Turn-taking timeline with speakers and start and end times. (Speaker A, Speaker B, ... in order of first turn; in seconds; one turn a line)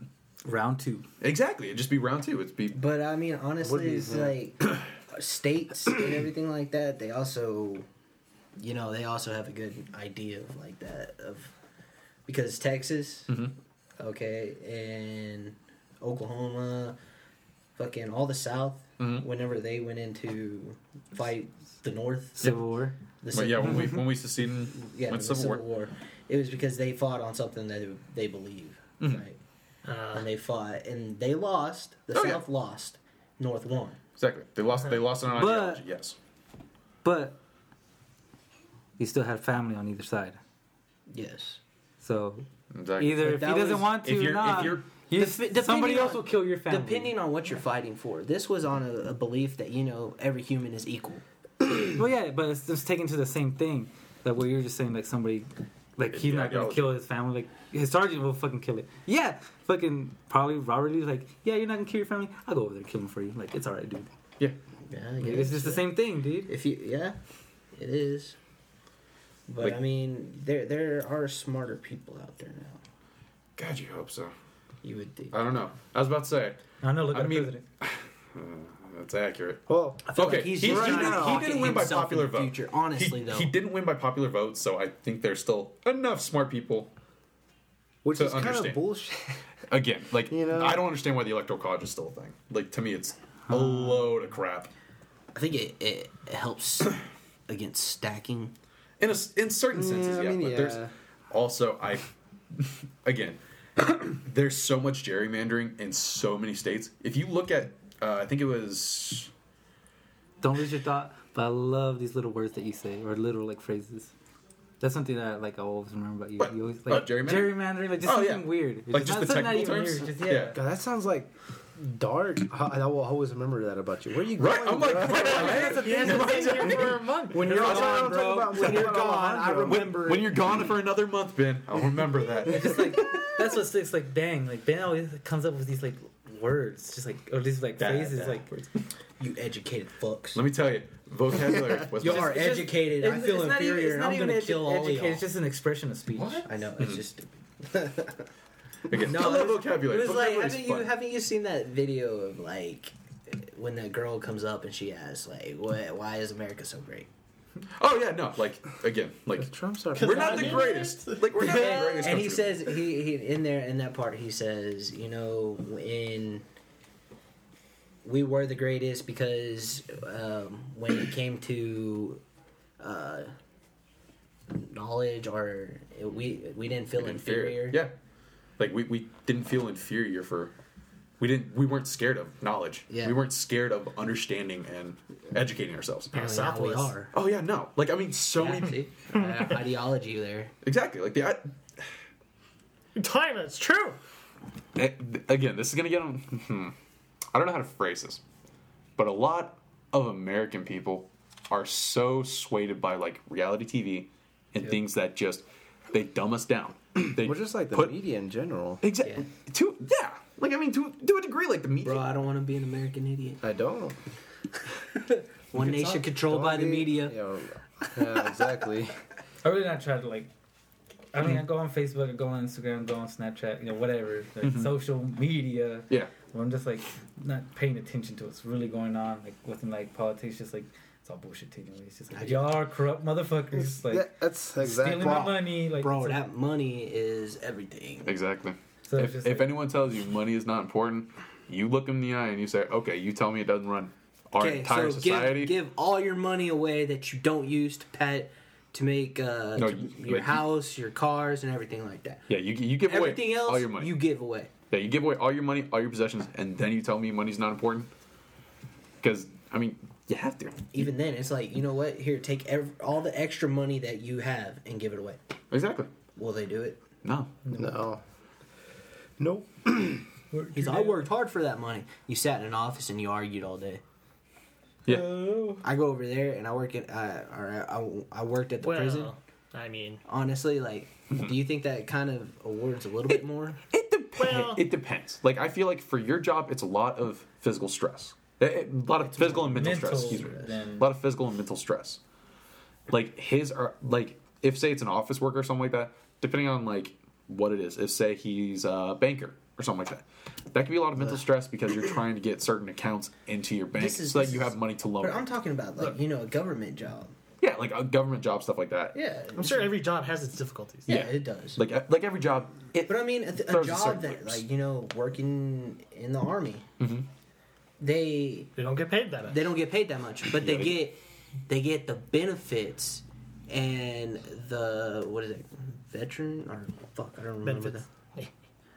Speaker A: 0.5-1.1
Speaker B: 1.2-2.8
Speaker C: 2.7-7.9
Speaker D: 3.6-4.4
Speaker C: 8.6-11.5
Speaker C: 12.3-13.4
Speaker B: 13.3-13.5
Speaker C: 14.0-17.0
Speaker C: 17.8-22.6
Speaker B: 19.0-19.3
Speaker A: 22.4-22.9
Speaker C: 23.2-24.1
Speaker B: 23.3-25.6
Speaker C: 24.7-29.4
Speaker E: 29.9-30.3
Speaker C: 30.1-34.0
Speaker B: 32.1-32.4
Speaker B: 34.2-36.2
Speaker A: 35.3-35.8
Speaker A: 37.0-37.4
Speaker A: 39.0-40.4
Speaker C: 41.1-41.6
Speaker A: 42.0-42.5
Speaker B: 42.7-43.3
Speaker A: 43.0-47.1
Speaker C: 43.2-44.0
Speaker B: 44.0-44.9
Speaker C: 45.1-51.2
Speaker A: 52.0-64.1
Speaker B: 56.1-56.9
Speaker C: 64.9-67.2
Speaker A: 65.2-66.5
Speaker C: 67.7-68.4
Speaker C: 69.5-72.8
Speaker B: 73.6-74.3
Speaker C: 74.8-75.3
Speaker B: 75.3-86.9
Speaker A: 76.8-77.6
Speaker D: 79.7-81.6
Speaker C: 80.1-83.5
Speaker D: 88.0-89.4
Speaker B: 88.1-88.8
Speaker B: 89.7-94.7
Speaker D: 90.3-90.9
Speaker A: 93.5-94.1
Speaker C: 95.3-98.5
Speaker B: 99.0-109.3
Speaker D: 99.7-100.9
Speaker A: 110.4-114.1
Speaker A: 114.8-120.6
Speaker B: 116.4-120.6
Speaker D: 120.5-125.6
Speaker B: 124.3-128.9
Speaker A: 125.1-128.7
Speaker E: 125.5-127.5
Speaker D: 127.3-130.0
Speaker C: 127.5-130.3
Speaker B: 129.7-133.3
Speaker A: 132.4-138.7
Speaker B: 137.8-138.5
Speaker C: 139.2-140.4
Speaker B: 140.3-142.7
Speaker C: 142.0-145.2
Speaker A: 142.0-146.5
Speaker B: 146.2-147.0
Speaker C: 146.4-148.3
Speaker B: 148.9-150.9
Speaker C: 148.9-157.1
Speaker B: 157.8-162.8
Speaker D: 159.4-160.7
Speaker E: 159.9-162.0
Speaker C: 161.4-166.4
Speaker C: 168.0-172.2
Speaker C: 172.8-173.3
Speaker C: 174.5-177.8
Speaker B: 177.0-177.9
Speaker B: 178.6-180.5
Speaker B: 181.2-186.1
Speaker C: 182.9-183.2
Speaker E: 186.1-187.0
Speaker C: 186.1-187.1
Speaker B: 187.1-188.8
Speaker C: 188.4-190.5
Speaker E: 189.2-189.6
Speaker B: 190.6-191.5
Speaker E: 192.9-194.0
Speaker B: 194.8-196.8
Speaker B: 197.3-198.2
Speaker B: 199.0-208.0
Speaker D: 207.2-208.8
Speaker B: 208.8-212.1
Speaker C: 211.8-213.4
Speaker D: 213.4-214.0
Speaker C: 215.0-217.2
Speaker D: 215.6-219.0
Speaker A: 219.4-220.3
Speaker A: 221.1-236.2
Speaker B: 224.4-224.8
Speaker C: 232.1-232.6
Speaker D: 233.6-235.5
Speaker C: 235.7-238.2
Speaker B: 238.1-245.5
Speaker A: 238.9-239.5
Speaker C: 244.4-252.3
Speaker B: 249.6-250.5
Speaker B: 252.3-254.0
Speaker C: 252.8-254.5
Speaker B: 254.7-257.9
Speaker B: 259.0-260.7
Speaker C: 260.7-265.2
Speaker B: 265.5-265.9
Speaker C: 266.2-266.8
Speaker B: 267.0-267.3
Speaker A: 267.5-267.8
Speaker D: 267.5-268.0
Speaker D: 269.2-270.1
Speaker A: 270.3-271.0
Speaker C: 270.5-273.8
Speaker B: 274.9-275.4
Speaker C: 275.6-279.1
Speaker E: 278.6-280.0
Speaker C: 280.1-283.6
Speaker B: 283.1-292.0
Speaker E: 284.2-284.6
Speaker C: 289.0-290.6
Speaker A: 289.5-290.9
Speaker B: 292.9-305.2
Speaker C: 303.7-307.1
Speaker B: 307.4-309.0
Speaker C: 308.9-309.8
Speaker E: 309.4-310.9
Speaker C: 310.9-311.6
Speaker B: 310.9-314.4
Speaker C: 312.9-316.7
Speaker B: 316.8-317.1
Speaker C: 317.8-318.5
Speaker E: 318.6-319.5
Speaker C: 319.3-327.9
Speaker B: 320.3-320.8
Speaker E: 327.4-328.3